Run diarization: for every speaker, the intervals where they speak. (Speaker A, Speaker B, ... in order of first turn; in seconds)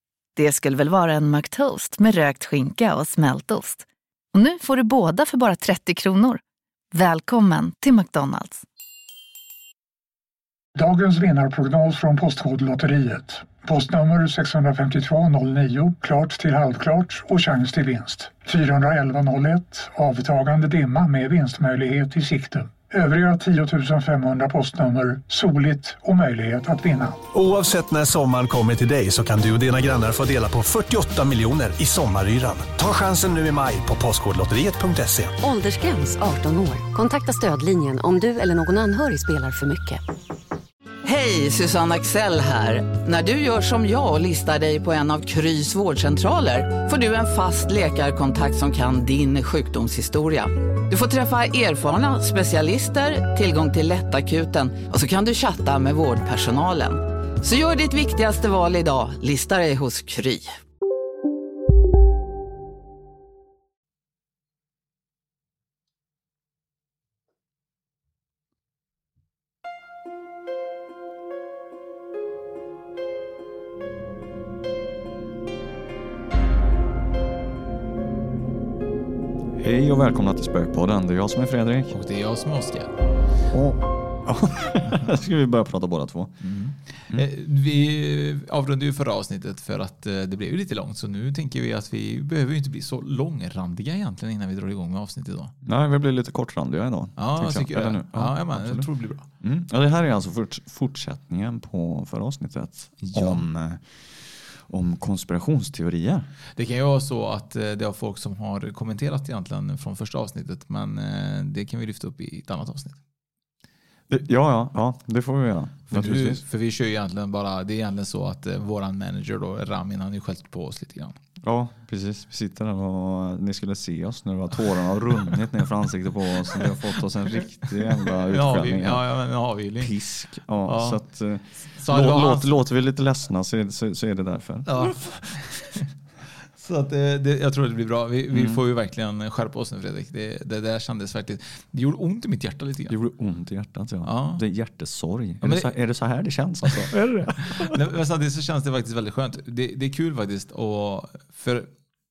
Speaker A: 0.4-6.4, 6.9-8.6
Speaker B: 10.8-27.2
Speaker C: 27.3-35.4
Speaker D: 35.4-40.0
Speaker E: 41.0-60.5
Speaker F: 79.5-81.9, 83.5-86.3, 95.6-98.9, 99.4-106.3, 114.1-116.4, 121.4-129.1, 129.8-135.3, 138.3-138.6, 142.9-147.8
Speaker G: 81.9-82.9, 86.4-95.5, 97.2-99.3, 103.0-103.4, 106.6-113.0, 115.9-121.2, 127.4-129.9, 130.7-131.0, 131.7-132.6, 134.7-135.8, 136.6-142.9, 144.0-144.4, 145.4-145.8, 147.5-151.7